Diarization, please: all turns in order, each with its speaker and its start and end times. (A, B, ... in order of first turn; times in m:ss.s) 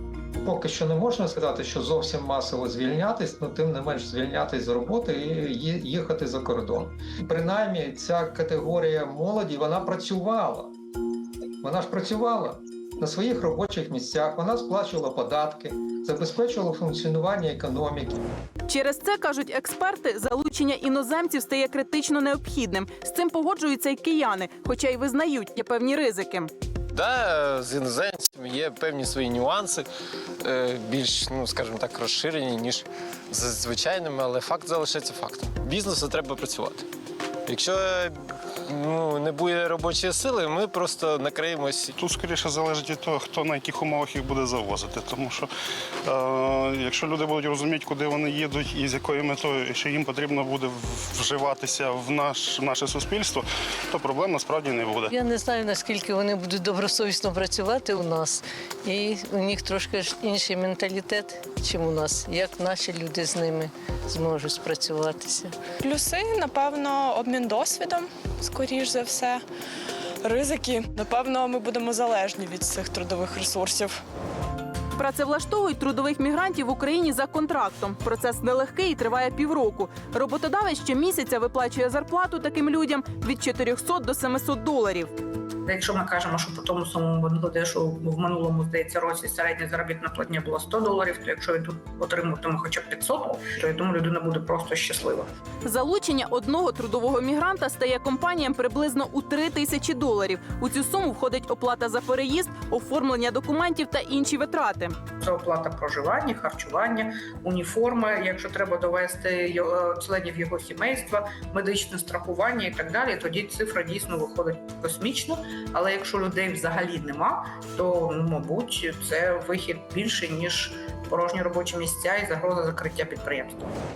0:00.4-0:10.7 A
0:11.6-0:18.2 A
0:18.7-0:26.5 B
0:26.9-0:29.9 C
0:30.4-0:36.9 C
0:37.4-0:42.0 C
0:42.0-0:45.5 D
0:46.0-0:55.1 D
0:55.1-1:05.5 E
1:05.8-1:09.4 F
1:10.2-1:14.0 F
1:15.0-1:25.1 B
1:25.6-1:35.3 G
1:35.6-1:45.0 B
1:45.2-2:03.7 G